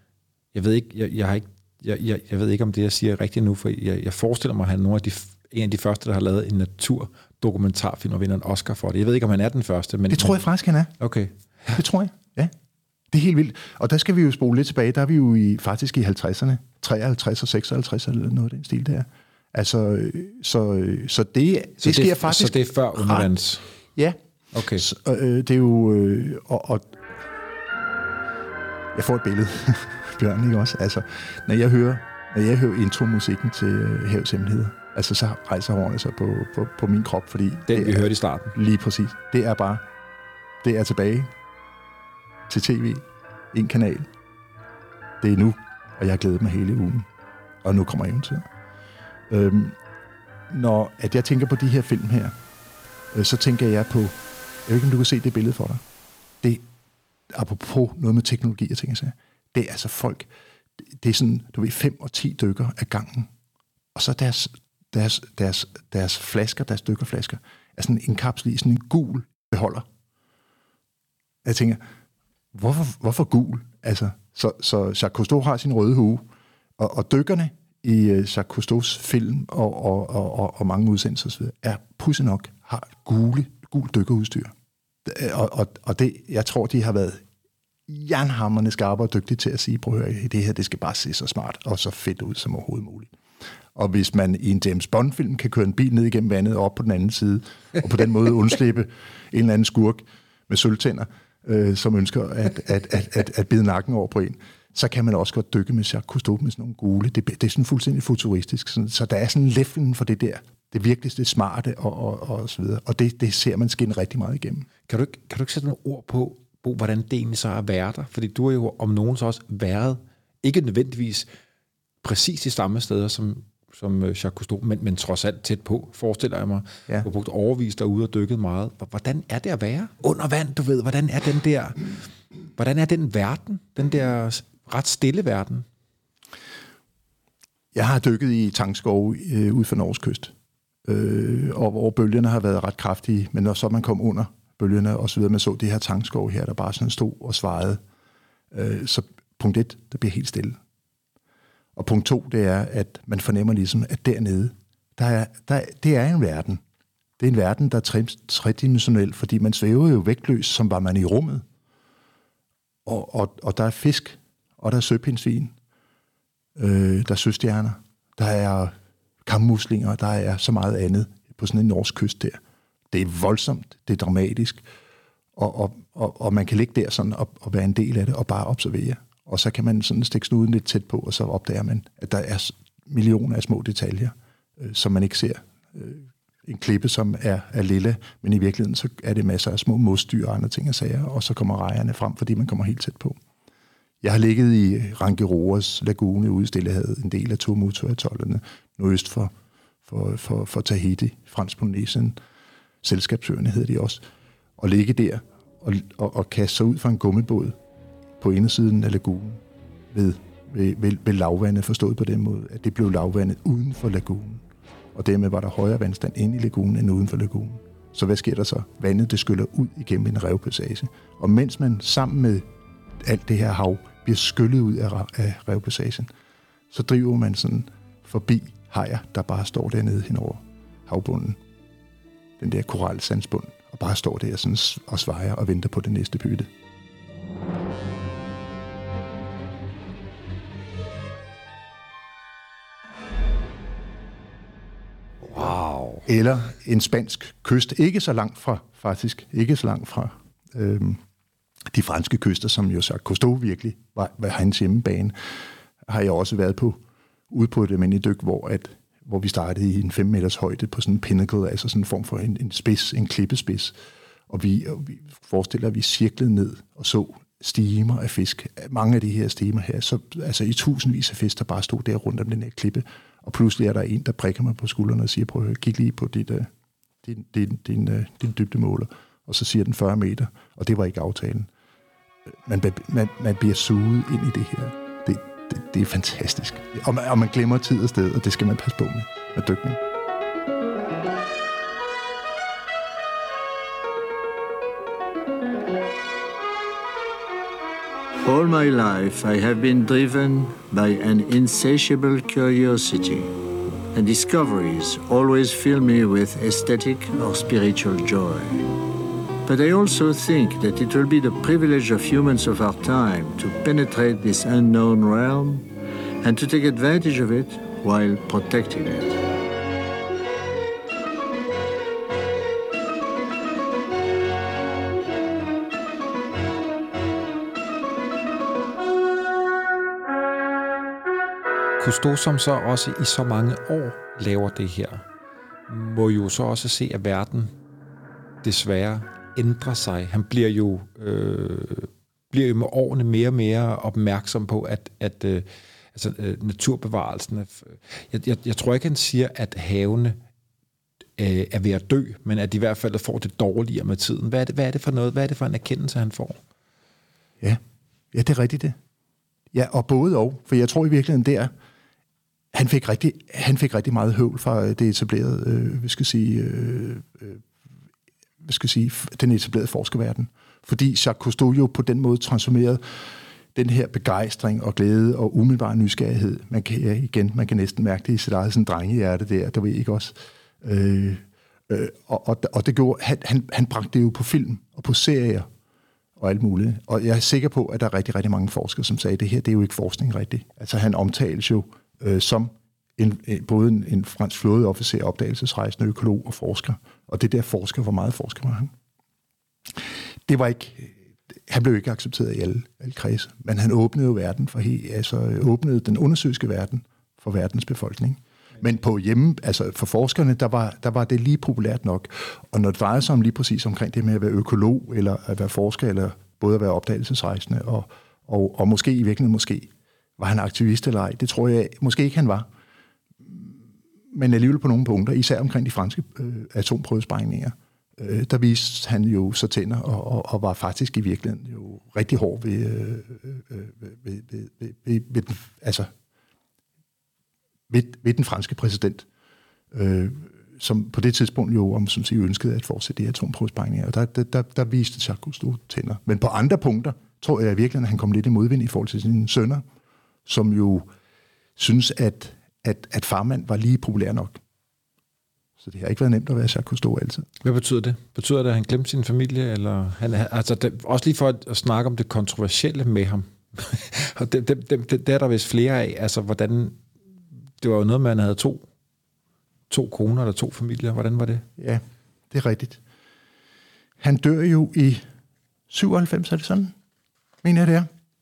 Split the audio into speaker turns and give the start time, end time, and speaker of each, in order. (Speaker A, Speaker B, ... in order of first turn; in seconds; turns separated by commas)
Speaker A: 0.5-10.4, Speaker B: 10.1-10.9, Speaker A: 11.0-11.8, Speaker B: 11.7-12.5, Speaker B: 13.1-23.3, Speaker A: 21.8-23.6, Speaker A: 24.5-24.9, Speaker B: 24.7-27.1, Speaker B: 28.9-39.8, Speaker A: 37.7-38.6, Speaker B: 40.6-41.3, Speaker B: 42.5-44.1, Speaker B: 45.2-47.1, Speaker B: 47.6-48.5, Speaker B: 49.3-49.8, Speaker B: 50.5-52.3, Speaker B: 53.1-55.8, Speaker B: 57.3-60.3, Speaker B: 60.9-63.3, Speaker B: 64.0-69.8, Speaker B: 71.4-71.8, Speaker B: 72.5-76.2, Speaker B: 76.8-84.5, Speaker B: 85.0-87.2, Speaker B: 87.9-93.1, Speaker B: 93.8-114.7, Speaker A: 114.9-121.3, Speaker A: 122.0-131.9, Speaker A: 132.6-135.7, Speaker B: 137.7-140.3, Speaker B: 140.8-147.8, Speaker B: 148.5-150.6, Speaker B: 151.8-156.6, Speaker B: 157.2-161.4, Speaker B: 162.8-165.5, Speaker B: 166.6-168.7, Speaker B: 169.2-172.4, Speaker B: 172.9-174.6, Speaker B: 175.4-193.2, Speaker B: 194.0-199.3, Speaker B: 199.9-202.2, Speaker B: 202.8-204.0, Speaker B: 204.6-207.6, Speaker B: 208.2-222.5, Speaker B: 223.0-226.1, Speaker B: 226.7-231.4, Speaker B: 232.4-236.5, Speaker A: 245.2-246.1, Speaker B: 246.1-251.0, Speaker B: 251.7-255.2, Speaker B: 255.8-263.8, Speaker B: 264.3-276.5, Speaker B: 277.0-281.5, Speaker B: 282.3-289.8, Speaker C: 298.2-303.4, Speaker C: 303.9-308.7, Speaker C: 309.5-315.7, Speaker C: 316.2-319.2, Speaker A: 331.8-335.0, Speaker A: 335.7-337.5, Speaker A: 338.4-350.2, Speaker A: 351.2-356.4, Speaker B: 358.1-358.8, Speaker B: 359.5-361.5, Speaker B: 362.5-367.4, Speaker B: 368.4-385.5, Speaker B: 386.2-398.7, Speaker B: 399.7-422.5, Speaker B: 423.2-423.6, Speaker B: 424.1-435.9, Speaker B: 437.7-439.1, Speaker B: 439.7-449.6, Speaker B: 450.3-450.9, Speaker B: 451.6-454.4, Speaker B: 455.6-457.3, Speaker A: 457.4-466.8, Speaker A: 467.6-468.6, Speaker A: 469.7-471.5, Speaker B: 471.6-472.8, Speaker B: 474.0-475.0, Speaker B: 475.7-476.7, Speaker B: 477.4-477.9